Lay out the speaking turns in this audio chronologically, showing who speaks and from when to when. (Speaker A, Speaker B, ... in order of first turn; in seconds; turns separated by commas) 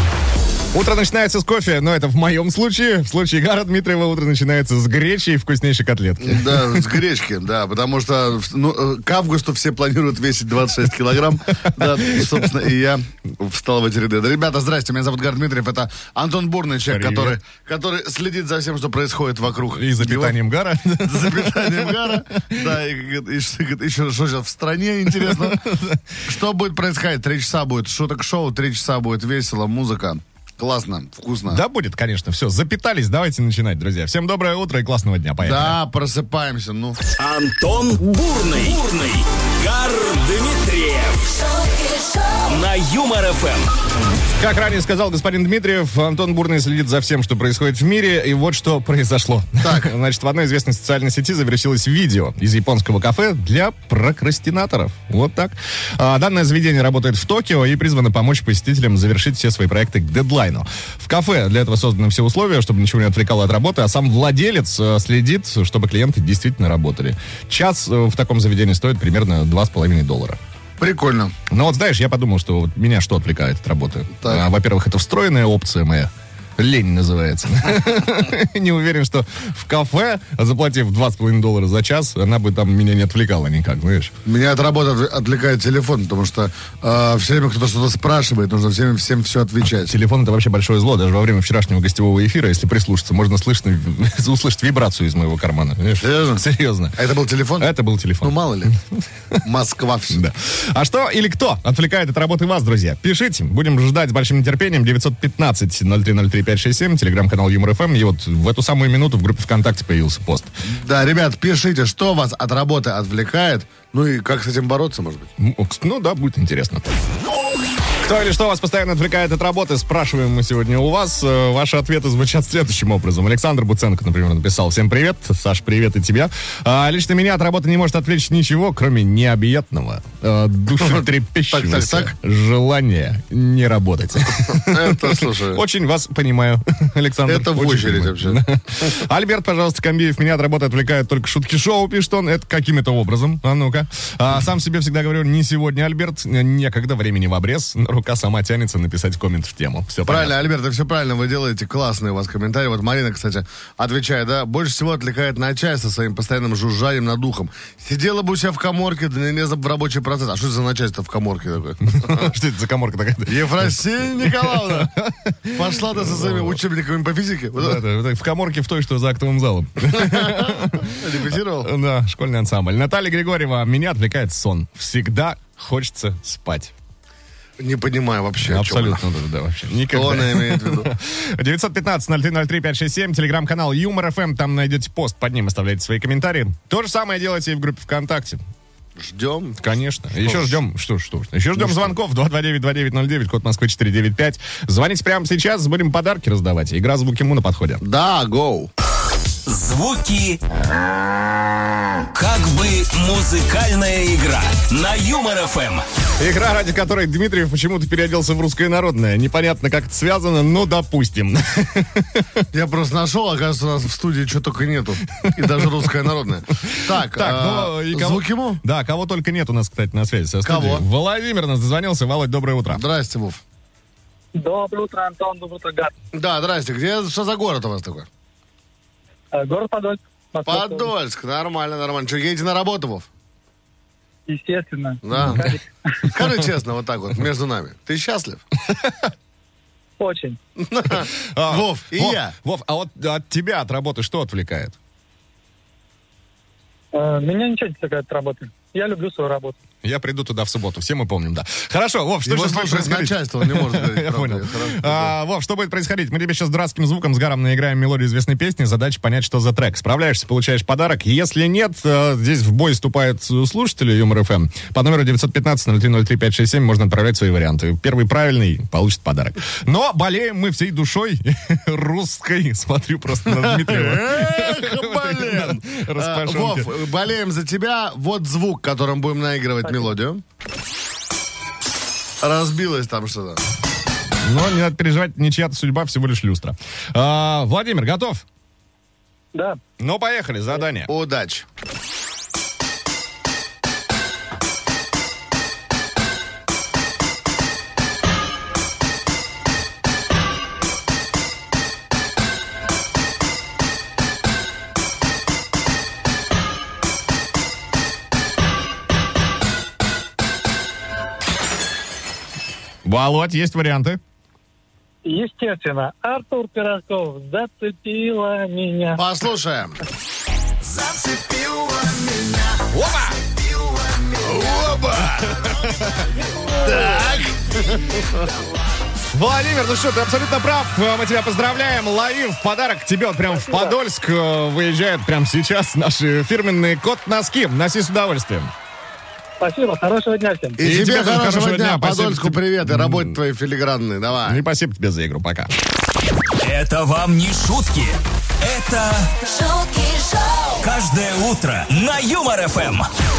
Speaker A: 0.7-6.9, Speaker B: 6.2-20.4, Speaker A: 11.8-12.2, Speaker A: 16.9-17.4, Speaker A: 19.7-22.6, Speaker B: 21.0-25.6, Speaker A: 25.1-26.0, Speaker B: 26.3-31.6, Speaker A: 31.5-35.8, Speaker B: 35.4-37.0, Speaker C: 37.2-41.6, Speaker C: 42.3-43.7, Speaker A: 44.4-70.4, Speaker B: 49.6-49.9, Speaker B: 70.8-71.3, Speaker A: 71.5-84.1, Speaker B: 84.3-90.0, Speaker A: 89.6-97.0, Speaker B: 96.0-98.7, Speaker A: 97.6-98.8, Speaker B: 99.4-100.2, Speaker A: 100.1-110.5, Speaker B: 110.6-115.3, Speaker A: 115.4-116.9, Speaker A: 118.0-150.4, Speaker B: 130.8-132.1, Speaker B: 134.3-135.6, Speaker B: 137.3-138.4, Speaker B: 150.1-162.3, Speaker A: 161.8-166.6, Speaker B: 163.3-164.9, Speaker B: 165.5-167.8, Speaker A: 167.6-176.7, Speaker B: 169.9-171.7, Speaker B: 177.6-179.0, Speaker A: 178.4-188.4, Speaker B: 179.9-180.9, Speaker B: 189.0-190.6, Speaker A: 189.6-197.8, Speaker B: 191.6-191.9, Speaker B: 197.8-198.7, Speaker C: 199.5-200.4, Speaker C: 202.0-205.9, Speaker A: 206.2-212.4, Speaker B: 212.5-218.6, Speaker A: 215.1-215.6, Speaker A: 216.6-222.8, Speaker B: 220.4-220.9, Speaker B: 222.7-223.4, Speaker D: 224.3-225.9, Speaker B: 226.1-228.1, Speaker D: 229.3-230.9, Speaker B: 230.4-233.1, Speaker D: 234.3-236.1, Speaker B: 235.0-238.4, Speaker A: 235.2-235.5, Speaker A: 238.7-239.0, Speaker D: 240.0-240.4, Speaker B: 240.6-242.3, Speaker A: 240.9-244.8, Speaker D: 246.9-249.6, Speaker A: 249.8-276.8, Speaker B: 252.2-255.2, Speaker B: 273.2-280.2, Speaker B: 282.2-283.4, Speaker A: 284.2-288.2, Speaker D: 289.3-289.6, Speaker A: 289.8-290.9, Speaker B: 290.9-291.5, Speaker A: 312.9-314.0, Speaker D: 315.0-319.0, Speaker B: 318.9-319.8, Speaker C: 320.7-322.6, Speaker A: 322.7-323.2, Speaker B: 324.1-325.4, Speaker A: 325.4-325.9, Speaker B: 326.6-328.3, Speaker A: 329.1-338.5, Speaker D: 333.3-333.7, Speaker D: 339.4-340.6, Speaker B: 340.6-344.4, Speaker A: 340.6-343.2, Speaker A: 344.3-345.5, Speaker C: 346.4-349.5, Speaker C: 350.5-352.9